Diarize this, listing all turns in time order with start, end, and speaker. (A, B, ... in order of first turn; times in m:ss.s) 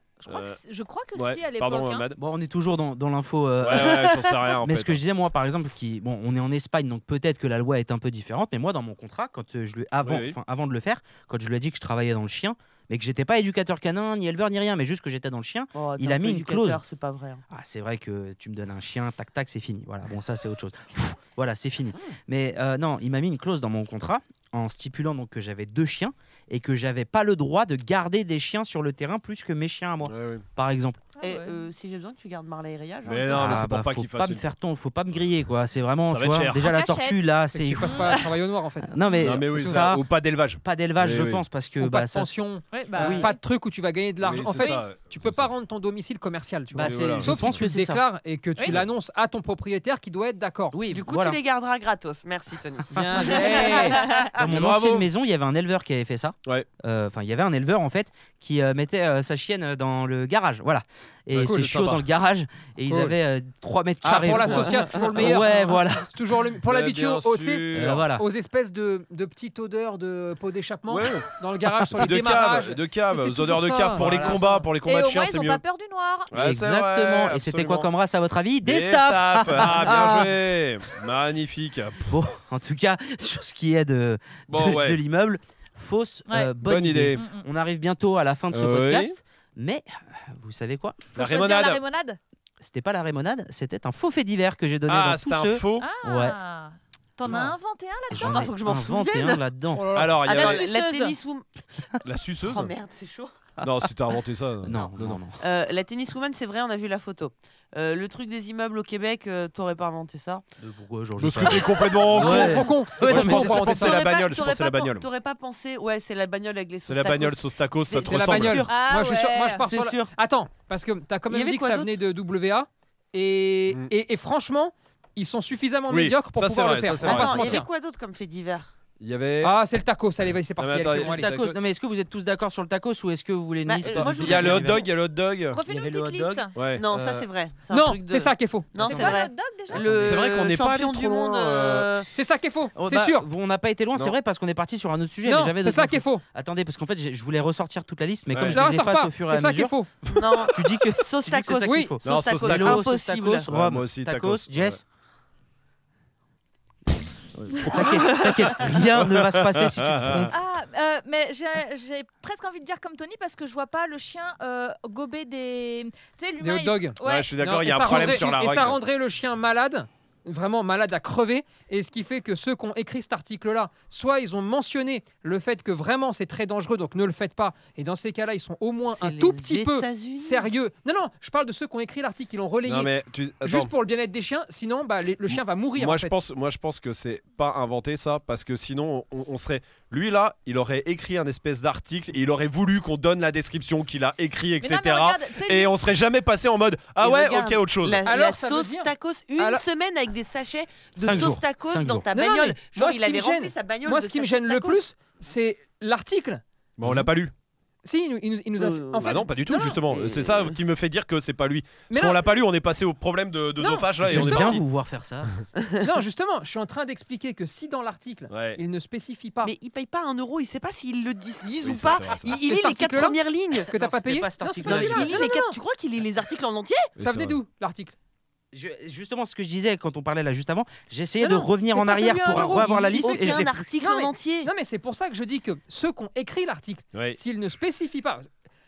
0:00.2-0:02.0 A
0:00.3-0:00.6 B
0:01.1-0:02.2 B
0:02.2-0:16.8 C
0:03.6-0:05.0 B
0:10.0-0:10.4 B
0:15.7-0:17.4 D
0:17.5-0:31.0 C
0:30.0-0:30.4 B
0:31.2-0:31.6 A
0:31.2-0:33.6 D
0:33.0-0:34.4 B
0:33.3-0:38.2 C
0:36.0-0:36.7 B
0:36.6-0:37.3 A
0:37.5-0:39.8 E
0:37.8-0:38.1 A
0:38.8-0:40.0 C
0:39.2-0:41.4 B
0:40.6-0:42.3 C
0:41.8-0:50.8 E
0:42.7-0:43.4 A
0:43.0-0:43.3 C
0:44.2-0:45.5 B
0:44.6-0:44.8 A
0:46.7-0:48.0 C
0:46.8-0:47.5 B
0:50.7-0:51.4 C
0:50.9-0:54.3 D
0:52.9-0:54.0 E
0:53.4-0:54.3 A
0:54.3-1:06.1 C
0:54.4-0:55.1 B
1:01.3-1:02.0 B
1:01.4-1:01.7 E
1:02.9-1:03.2 E
1:04.0-1:14.6 E
1:04.5-1:05.0 D
1:06.7-1:08.1 B
1:07.7-1:08.2 C
1:10.9-1:11.3 B
1:12.0-1:15.6 B
1:14.0-1:14.5 D
1:14.0-1:14.3 C
1:14.8-1:16.3 A
1:16.3-1:17.9 B
1:16.3-1:20.4 C
1:18.6-1:22.2 B
1:22.1-1:31.1 C
1:24.5-1:25.0 B
1:26.6-1:27.2 B
1:27.1-1:27.5 A
1:28.5-1:29.2 B
1:31.1-1:31.8 B
1:31.1-1:32.2 A
1:32.6-1:36.4 C
1:34.9-1:35.9 B
1:35.8-1:38.5 A
1:37.3-1:37.5 E
1:38.1-1:39.4 D
1:38.1-1:39.8 C
1:39.7-1:40.2 E
1:39.9-1:40.7 B
1:40.3-1:41.2 A
1:40.3-1:41.9 D
1:42.0-1:42.7 B
1:42.5-1:43.5 D
1:43.6-1:45.2 B
1:44.6-1:45.4 C
1:45.4-1:50.4 D
1:50.6-1:53.8 C
1:51.2-1:55.0 B
1:52.1-1:54.0 E
1:53.7-1:58.8 D
1:56.8-1:58.7 B
1:58.0-2:07.7 E
1:58.7-1:59.6 A
1:59.6-2:00.1 D
2:01.3-2:02.0 D
2:05.9-2:07.6 B
2:07.0-2:08.7 D
2:09.0-2:09.6 B
2:09.4-2:11.3 E
2:10.6-2:11.6 B
2:11.0-2:14.8 C
2:13.6-2:14.9 D
2:13.8-2:15.6 B
2:15.5-2:16.6 A
2:15.7-2:16.5 C
2:16.5-2:17.2 B
2:16.7-2:22.1 D
2:17.7-2:18.7 E
2:18.8-2:20.1 A
2:18.8-2:20.2 C
2:19.8-2:21.9 B
2:22.1-2:23.3 E
2:22.8-2:29.8 C
2:25.2-2:26.2 E
2:28.3-2:28.6 B
2:28.5-2:29.9 E
2:30.0-2:30.5 B
2:30.1-2:33.4 D
2:30.5-2:34.8 C
2:31.6-2:31.9 E
2:32.0-2:32.9 B
2:33.5-2:34.8 B
2:37.5-2:40.3 C
2:37.6-2:37.9 B
2:37.8-2:38.3 D
2:38.6-2:40.3 B
2:40.3-2:47.3 A
2:46.4-3:02.9 E
2:47.0-2:48.8 B
2:58.9-3:00.5 D
3:02.6-3:03.7 B
3:03.4-3:06.1 E
3:05.3-3:18.0 B
3:14.6-3:15.7 A
3:17.0-3:24.8 D
3:18.0-3:19.6 E
3:21.0-3:22.1 C
3:22.1-3:26.4 E
3:26.8-3:27.3 B
3:26.8-3:27.1 C
3:27.8-3:29.8 E
3:28.6-3:29.3 D
3:29.0-3:34.6 B
3:29.9-3:30.6 D
3:31.9-3:32.2 E
3:33.6-3:34.6 E
3:34.0-3:35.3 C
3:35.6-3:35.8 D
3:35.8-3:39.5 E
3:38.3-3:38.6 B
3:39.4-3:43.7 D
3:41.6-3:42.4 B
3:42.3-3:45.6 E
3:43.8-3:45.2 C
3:44.6-3:46.9 D
3:47.0-3:47.4 B
3:47.0-3:47.9 E
3:48.5-3:53.6 C
3:51.2-3:58.3 E
3:52.3-3:54.5 D
3:56.9-3:57.2 B